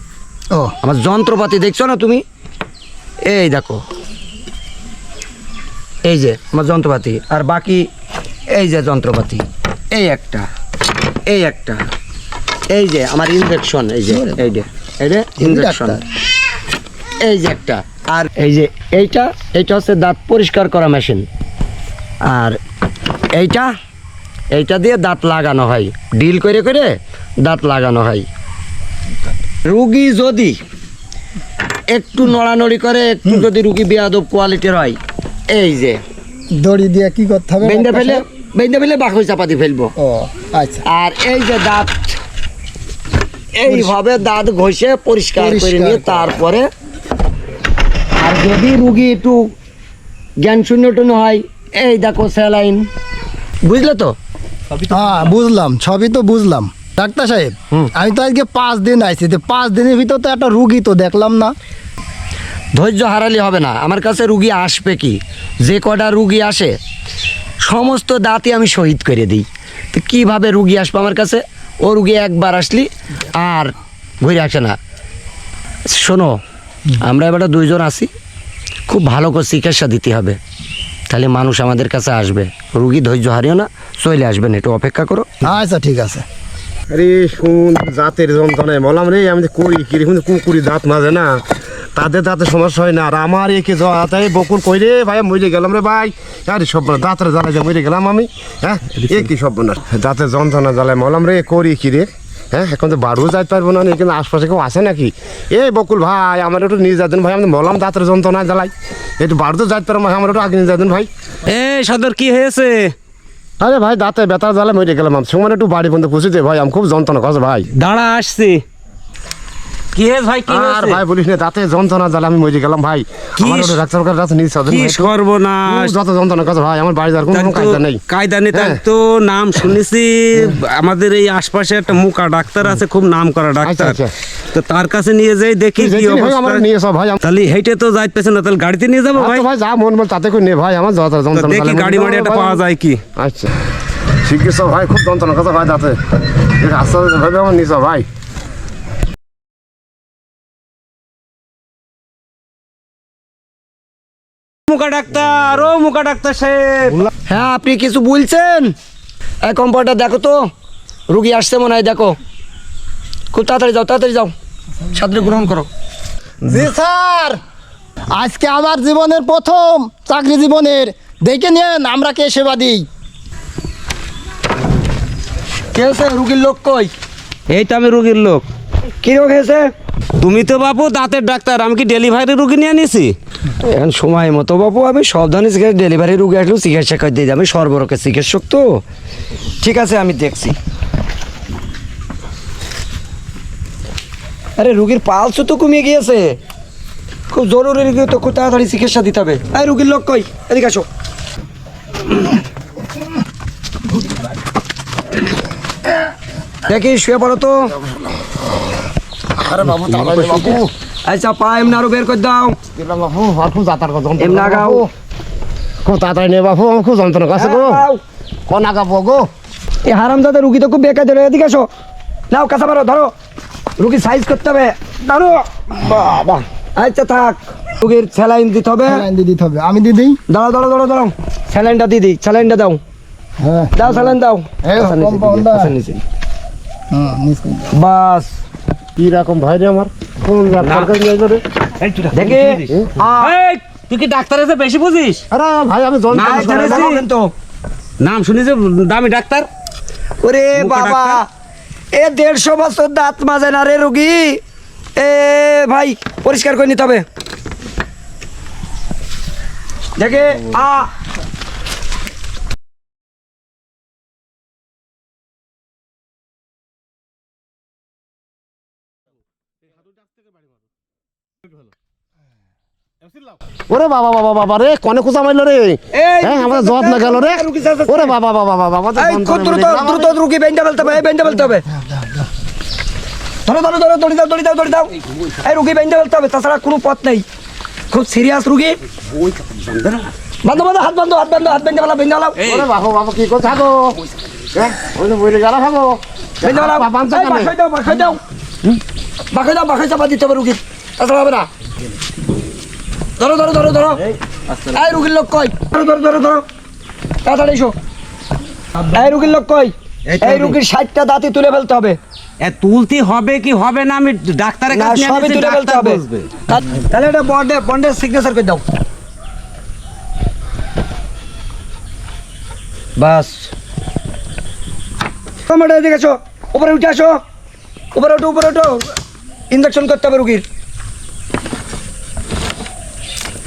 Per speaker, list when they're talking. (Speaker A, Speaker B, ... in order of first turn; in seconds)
Speaker A: 0.8-2.2, 3.2-3.8, 6.0-7.9, 8.6-10.4, 11.2-11.8, 12.7-16.0, 17.2-21.3, 22.2-22.6, 23.3-23.7, 24.5-28.3, 29.7-30.6, 31.9-35.0, 35.5-36.0, 37.6-39.9, 40.9-42.1, 43.5-46.7, 48.2-49.5, 50.4-52.9, 53.6-54.1, 62.7-66.8, 67.6-74.8, 75.9-76.4, 77.0-78.1, 78.9-80.4, 81.1-85.3, 157.3-158.7, 159.4-160.4, 161.1-162.2, 163.3-164.3, 164.9-165.7, 175.7-176.9, 179.0-179.7, 183.6-188.7, 189.6-190.6, 194.6-196.3, 197.3-200.8, 206.7-207.7, 209.9-212.6, 214.2-214.9, 217.4-218.0, 219.8-221.7, 222.3-223.1, 223.8-229.0, 230.3-232.8, 233.8-236.0, 237.7-238.3, 242.1-243.3, 246.2-247.3, 250.2-251.2, 251.9-254.4, 254.9-257.0, 260.0-260.9, 275.9-278.1, 279.0-281.6, 283.4-287.2, 287.9-288.8, 290.4-292.4, 296.4-298.2, 299.3-301.5, 303.2-304.0, 304.7-306.4, 307.2-307.8, 308.9-312.0, 314.7-318.7, 323.0-323.5, 325.5-327.2, 327.9-328.8, 329.5-330.4
Speaker B: 15.4-16.0, 36.5-38.2, 40.0-40.8, 45.4-46.2, 54.9-61.5, 85.4-86.2, 166.4-167.4, 168.1-172.9, 228.9-230.2, 233.4-234.1, 234.6-235.7, 236.9-237.7, 281.7-282.2
Speaker C: 86.9-91.4, 91.9-111.1, 113.6-117.7, 120.5-125.1, 125.7-128.0, 128.5-128.8, 133.6-134.1, 135.8-137.2, 139.2-142.6, 143.2-143.5, 144.2-146.0, 146.6-148.1, 209.4-210.7, 212.7-214.9, 215.8-217.8, 218.5-219.3, 238.9-241.4, 245.3-246.9, 273.7-280.1, 292.4-294.0, 294.5-297.5
Speaker D: 111.5-112.9, 117.7-118.6, 119.9-121.0, 123.4-123.8, 124.7-125.9, 127.3-134.0, 134.5-136.6, 137.2-139.4, 141.3-143.0, 154.7-157.1, 177.5-178.4, 180.2-183.1, 240.6-240.9, 241.8-242.7, 243.2-245.2, 246.1-247.0, 248.0-249.5, 250.5-251.2, 289.7-290.1, 310.1-310.6, 312.4-316.4